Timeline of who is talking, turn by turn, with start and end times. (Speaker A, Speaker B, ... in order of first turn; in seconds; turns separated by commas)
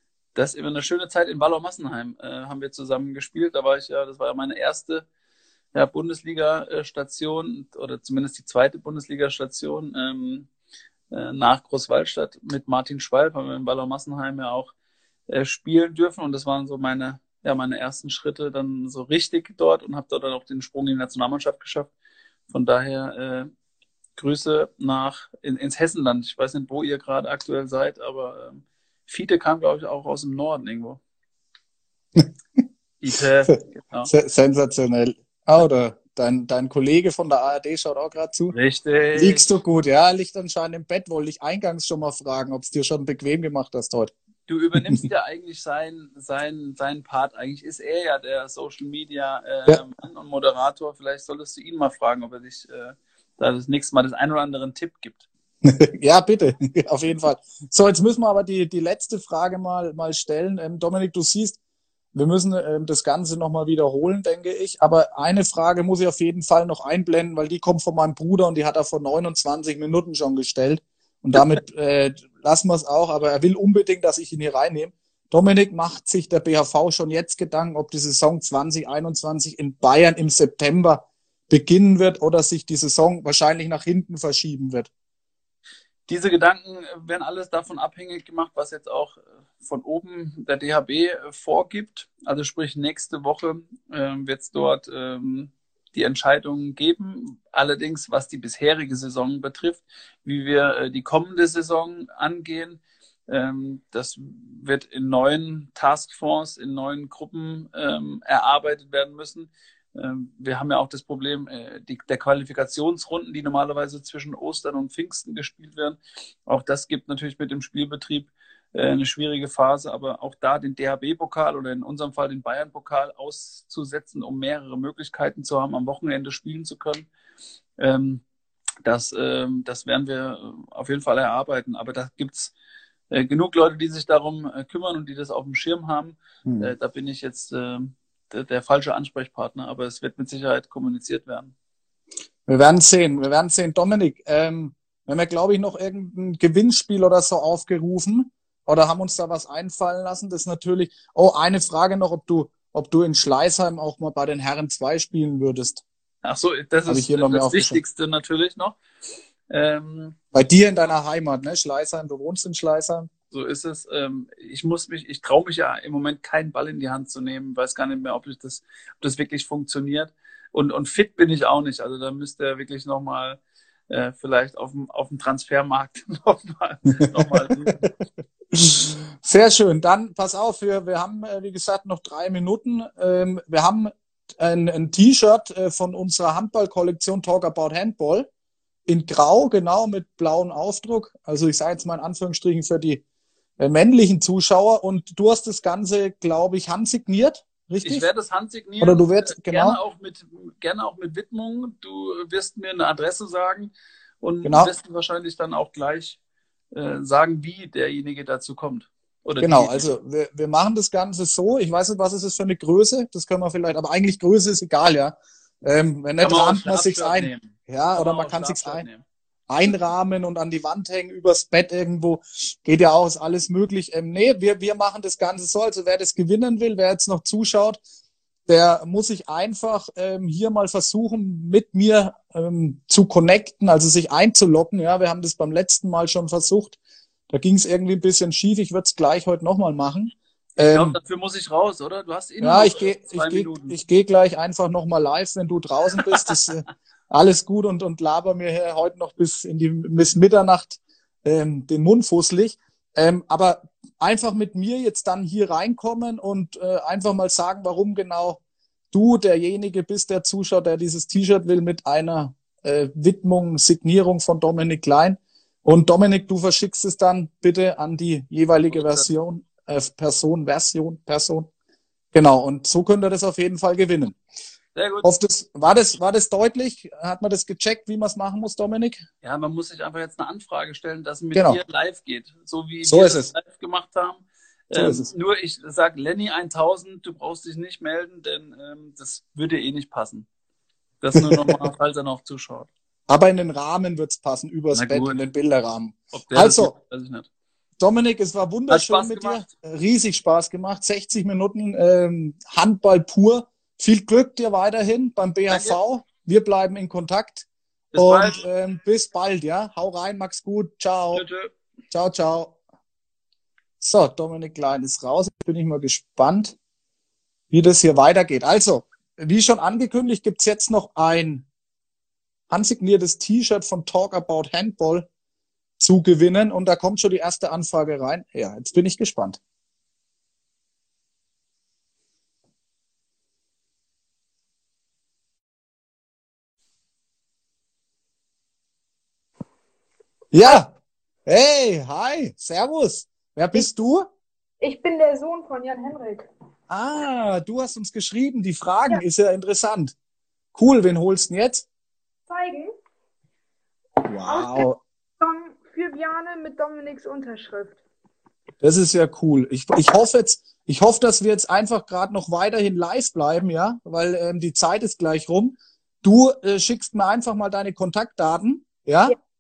Speaker A: 0.3-5.0, Speaker A: 5.7-10.5, Speaker A: 11.1-14.7, Speaker A: 15.3-21.9, Speaker A: 22.5-23.5, Speaker A: 24.2-31.0, Speaker B: 32.2-32.6, Speaker A: 33.0-34.1, Speaker B: 34.1-38.5, Speaker A: 38.5-39.5, Speaker B: 39.2-44.1, Speaker A: 44.5-55.3, Speaker B: 55.6-61.6, Speaker B: 62.1-84.9, Speaker A: 86.1-127.1, Speaker A: 127.8-128.2, Speaker A: 128.8-132.5, Speaker A: 133.1-141.5, Speaker B: 136.5-136.7, Speaker B: 142.5-155.8, Speaker A: 156.2-158.8, Speaker B: 156.9-157.8, Speaker A: 159.5-160.2, Speaker B: 160.3-163.1, Speaker A: 163.3-177.9, Speaker B: 177.1-177.9, Speaker B: 178.5-188.3, Speaker B: 188.9-193.0, Speaker B: 193.6-198.1, Speaker A: 197.8-206.2, Speaker B: 198.8-199.8, Speaker B: 204.4-204.7, Speaker A: 206.7-209.9, Speaker B: 209.4-218.9, Speaker A: 216.2-219.0, Speaker B: 219.5-227.8, Speaker B: 228.5-236.8, Speaker B: 237.3-241.0, Speaker A: 240.7-243.8, Speaker B: 242.4-258.4, Speaker B: 258.9-271.5, Speaker A: 268.7-269.1, Speaker B: 272.1-274.2, Speaker A: 274.8-275.1, Speaker B: 275.0-279.1, Speaker A: 279.2-290.3, Speaker B: 281.3-281.6, Speaker B: 282.8-283.3, Speaker B: 284.7-285.1, Speaker A: 291.0-292.7, Speaker B: 291.1-291.7, Speaker B: 293.1-296.7, Speaker A: 294.7-295.2, Speaker A: 296.1-297.3, Speaker B: 297.8-311.2, Speaker A: 298.7-299.5, Speaker A: 305.5-305.8, Speaker A: 307.9-308.4, Speaker A: 311.1-311.5, Speaker B: 311.9-312.6, Speaker B: 313.8-316.6, Speaker B: 317.5-321.5, Speaker B: 322.5-325.1, Speaker B: 325.8-329.4, Speaker B: 340.3-340.7, Speaker B: 341.3-344.1, Speaker C: 344.6-346.3, Speaker B: 346.7-349.9, Speaker B: 350.6-351.7, Speaker C: 352.3-352.7, Speaker B: 354.1-354.8, Speaker C: 354.2-354.7, Speaker C: 355.2-357.8, Speaker B: 358.6-369.1